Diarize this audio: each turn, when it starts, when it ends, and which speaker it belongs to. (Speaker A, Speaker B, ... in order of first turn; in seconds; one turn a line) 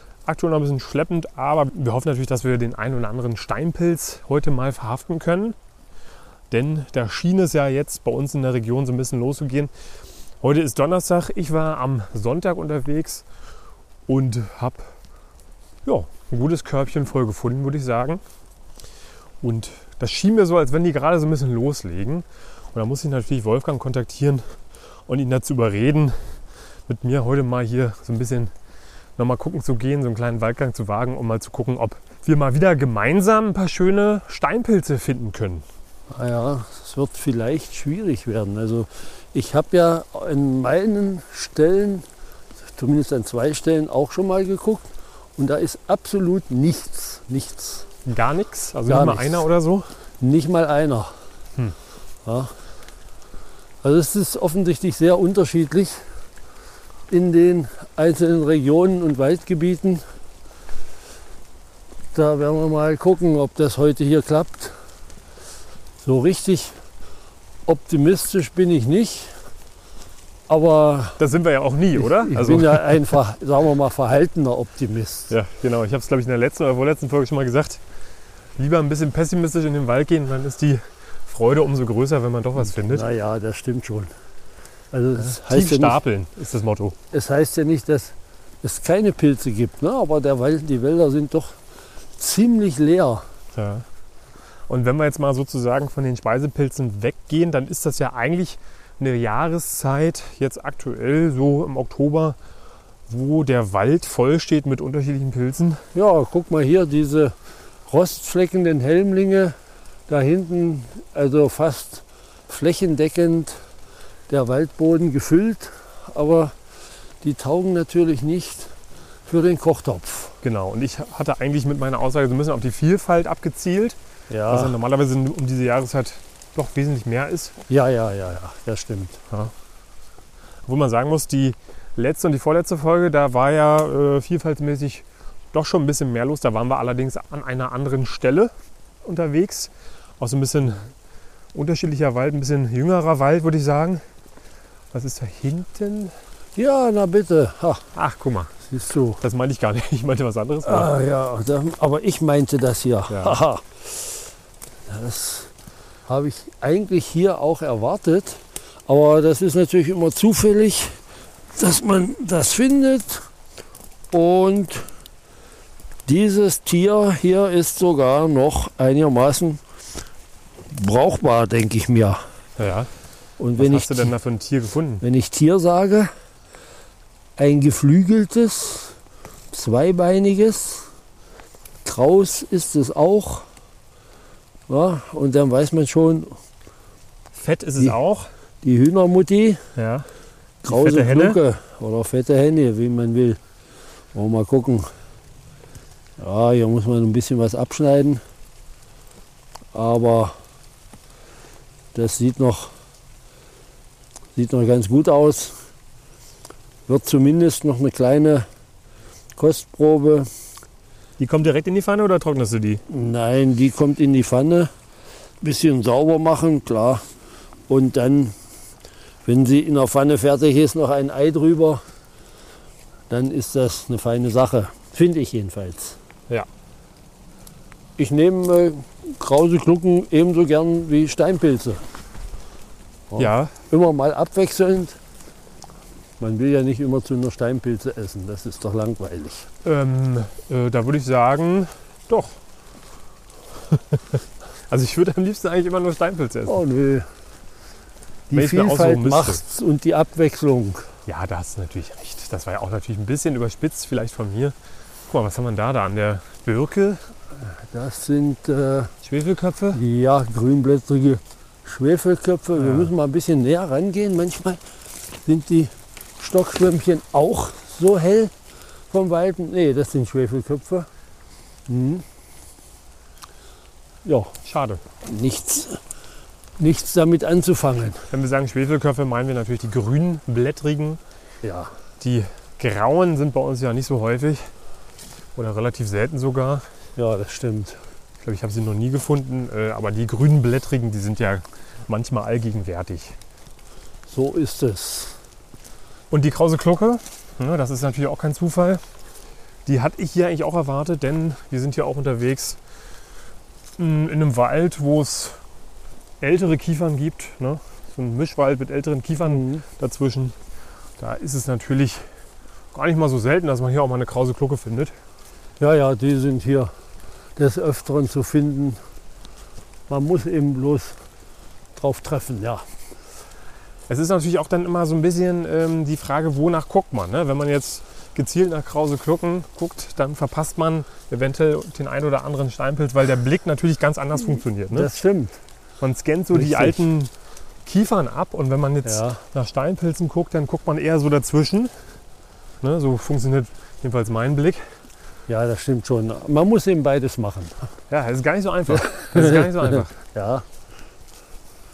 Speaker A: 0.3-5.6
Speaker A: 6.5-9.7
Speaker A: 10.4-13.2
Speaker A: 14.1-14.9
Speaker A: 15.8-18.2
Speaker A: 19.4-24.5
Speaker A: 25.1-26.1
Speaker A: 26.9-28.5
Speaker A: 29.2-35.6
Speaker B: 36.1-42.0
Speaker B: 42.8-47.9
Speaker A: 48.0-49.9
Speaker B: 48.8-49.5
Speaker B: 50.2-51.1
Speaker B: 52.3-52.5
Speaker B: 53.8-56.0
Speaker B: 57.1-60.0
Speaker B: 62.1-64.7
Speaker B: 66.0-66.7
Speaker B: 67.7-69.3
Speaker B: 70.5-71.2
Speaker A: 71.2-73.0
Speaker B: 72.0-75.3
Speaker A: 75.3-77.8
Speaker A: 78.6-83.1
Speaker B: 82.9-84.1
Speaker B: 84.9-86.0
Speaker A: 85.2-87.0
Speaker B: 87.1-91.6
Speaker B: 92.2-93.2
Speaker A: 93.5-93.9
Speaker A: 94.7-102.4
Speaker A: 103.1-105.8
Speaker B: 105.9-107.3
Speaker B: 107.9-109.5
Speaker B: 110.1-113.6
Speaker B: 114.3-116.5
Speaker B: 117.2-118.7
Speaker B: 119.3-120.4
Speaker A: 120.4-124.0
Speaker B: 124.3-124.8
Speaker A: 124.5-127.5
Speaker B: 127.7-129.2
Speaker A: 130.7-140.9
Speaker A: 141.5-144.0
Speaker A: 144.9-146.1
Speaker B: 146.6-147.8
Speaker A: 148.0-148.5
Speaker B: 148.7-149.2
Speaker A: 149.2-150.9
Speaker B: 150.7-154.3
Speaker A: 153.1-153.4
Speaker B: 154.9-155.5
Speaker B: 156.1-161.0
Speaker B: 161.6-163.3
Speaker B: 164.1-164.9
Speaker B: 166.1-169.6
Speaker B: 170.7-172.2
Speaker A: 172.6-172.9
Speaker B: 173.4-174.1
Speaker A: 173.6-175.0
Speaker B: 175.0-176.1
Speaker B: 177.4-179.0
Speaker B: 179.5-180.9
Speaker B: 181.8-183.5
Speaker B: 184.7-186.4
Speaker A: 187.3-188.3
Speaker B: 188.6-189.6
Speaker A: 189.8-190.1
Speaker B: 190.6-193.4
Speaker A: 190.7-191.4
Speaker B: 194.1-194.9
Speaker B: 196.2-198.2
Speaker B: 199.7-200.3
Speaker B: 201.9-202.7
Speaker B: 204.4-205.6
Speaker B: 206.9-208.5
Speaker B: 209.4-210.3
Speaker A: 211.2-212.8
Speaker B: 212.9-214.7
Speaker B: 215.4-217.0
Speaker B: 217.7-218.3
Speaker B: 219.3-221.8
Speaker B: 223.1-226.0
Speaker B: 228.0-231.8
Speaker B: 233.1-235.0
Speaker A: 233.2-233.5
Speaker B: 236.2-239.5
Speaker A: 239.6-242.4
Speaker A: 243.7-246.6
Speaker B: 246.5-247.1
Speaker B: 248.3-250.9
Speaker A: 248.3-249.4
Speaker A: 251.1-254.6
Speaker A: 255.1-257.0
Speaker B: 257.4-258.9
Speaker A: 259.0-259.8
Speaker B: 259.7-264.6
Speaker A: 262.6-262.9
Speaker B: 265.1-268.3
Speaker B: 268.9-270.9
Speaker B: 271.7-272.0
Speaker B: 274.1-274.3
Speaker A: 274.4-274.8
Speaker B: 275.0-275.8
Speaker B: 276.6-278.1
Speaker A: 278.1-281.0
Speaker B: 281.4-281.7
Speaker A: 282.0-284.5
Speaker A: 285.4-286.7
Speaker B: 287.0-287.8
Speaker A: 288.2-293.2
Speaker B: 294.1-295.2
Speaker A: 296.1-298.8
Speaker A: 299.7-302.6
Speaker A: 303.8-305.4
Speaker A: 306.2-310.4
Speaker B: 309.2-309.6
Speaker A: 311.0-312.1
Speaker A: 312.7-314.9
Speaker B: 315.6-316.7
Speaker B: 317.4-318.8
Speaker B: 319.9-321.0
Speaker B: 321.8-322.6
Speaker A: 323.9-334.9
Speaker B: 334.7-335.4
Speaker A: 335.8-337.1
Speaker B: 336.3-336.8
Speaker A: 337.6-341.7
Speaker B: 338.9-339.2
Speaker A: 342.6-344.6
Speaker B: 345.3-347.7
Speaker A: 347.9-349.9
Speaker B: 348.7-350.4